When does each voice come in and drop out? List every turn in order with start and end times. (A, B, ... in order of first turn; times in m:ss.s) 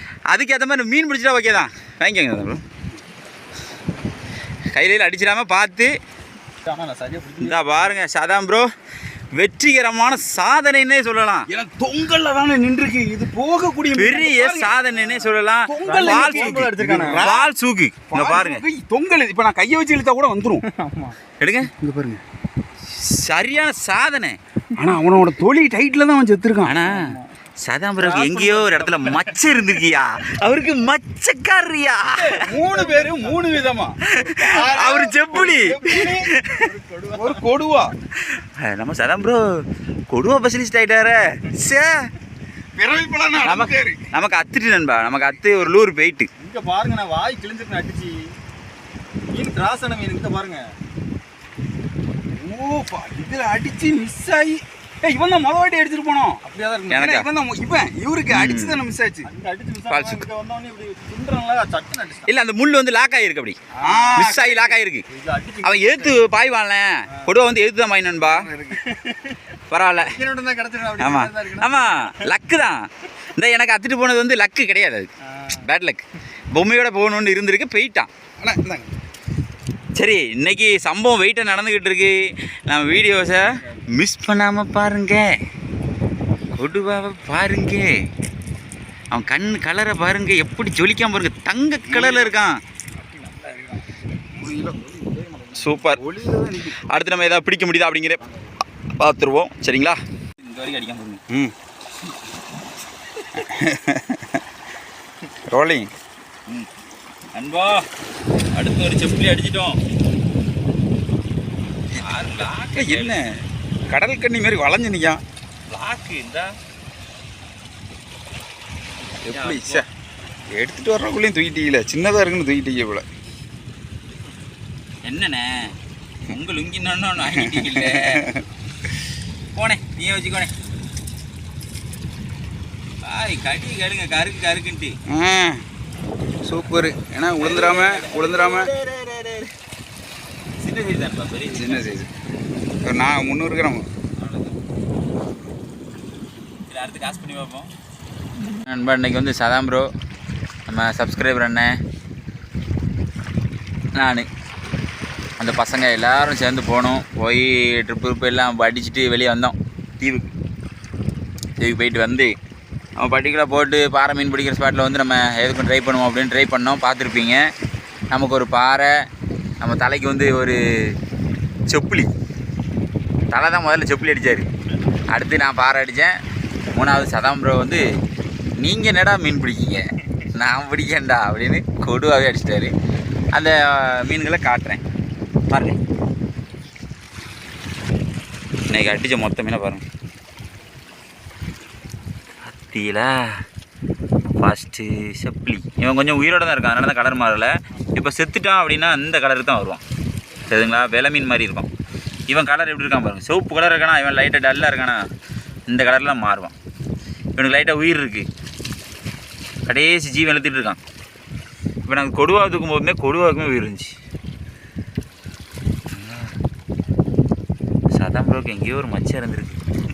0:00.3-0:02.6 A
0:04.7-0:05.9 A
0:06.6-0:07.9 B
0:07.4-0:08.7 A
0:09.3-0:11.5 A
0:11.5-0:14.8 C
0:14.0-0:18.6 A
0:15.7-0:17.5 C
0:15.8-0:17.3 B
0:18.1-0:20.7 C
0:20.7-0:21.2 B
0:21.4-0:21.7 A
0:21.7-0:22.2 C
0:22.9-0:24.4 A
0:24.8-0:26.8 C
0:26.6-0:32.4 A
0:26.8-0:27.3 B
0:28.0-0:29.7 B
0:32.1-0:33.7 B
0:32.5-0:34.0 C
0:34.1-0:36.7 A
0:34.3-0:37.4 B
0:37.1-0:38.0 C
0:38.2-0:42.1 A
0:42.8-0:44.0 C
0:43.4-0:46.3 A
0:46.4-0:48.3 B
0:49.3-0:50.7 B
0:52.4-0:56.4 C
0:56.4-0:57.1 B
0:56.9-0:57.3 A
0:57.0-0:59.3 C
0:58.3-0:58.8 A
0:59.2-1:02.3 B
0:59.9-1:00.3 A
1:02.2-1:03.6 A
1:03.8-1:06.2 B
1:03.8-1:04.5 C
1:04.2-1:05.0 A
1:05.6-1:08.5 A
1:08.2-1:08.8 C
1:08.8-1:09.4 B
1:09.7-1:10.2 A
1:10.0-1:12.2 B
1:11.0-1:18.1 A
1:15.3-1:15.7 B
1:18.4-1:18.9 C
1:20.0-1:25.4 A
1:26.6-1:28.0 A
1:29.1-1:32.6 A
1:31.9-1:32.4 C
1:33.0-1:33.8 B
1:34.3-1:36.9 C
1:35.6-1:36.0 A
1:36.8-1:38.2 A
1:39.0-1:41.2 A
1:41.3-1:41.6 C
1:43.4-1:44.4 C
1:45.5-1:45.9 C
1:47.3-1:47.9 A
1:48.5-1:49.8 A
1:51.9-1:53.4 C
1:52.0-1:53.3 A
1:53.9-1:55.2 C
1:55.7-1:56.5 A
1:59.2-1:59.9 C
1:59.3-1:59.8 A
2:00.5-2:03.1 C
2:05.0-2:08.3 A
2:07.3-2:08.4 C
2:09.6-2:10.5 A
2:13.0-2:15.0 A
2:15.1-2:15.6 C
2:16.4-2:18.7 C
2:17.4-2:19.5 A
2:20.6-2:21.8 A
2:21.5-2:22.1 C
2:22.8-2:23.9 C
2:24.2-2:24.6 A
2:26.7-2:27.7 A
2:28.5-2:29.9 A
2:30.7-2:31.8 A
2:33.9-2:34.3 A
2:35.4-2:40.3 A
2:41.6-2:42.4 A
2:43.0-2:47.4 A
2:48.1-2:48.9 A
2:49.6-2:51.0 A
2:51.7-2:52.1 A
2:53.3-2:54.5 A
2:55.1-2:56.2 A
2:56.7-2:57.8 A
2:58.6-3:02.7 A
3:03.3-3:04.8 A
3:05.5-3:05.8 A
3:08.7-3:09.8 A
3:12.5-3:13.4 A
3:14.4-3:19.8 A
3:20.5-3:21.7 A
3:22.3-3:25.1 A
3:25.7-3:26.5 A
3:27.4-3:28.3 A
3:29.7-3:30.8 A
3:31.8-3:34.0 A
3:35.9-3:36.4 A
3:37.9-3:39.6 A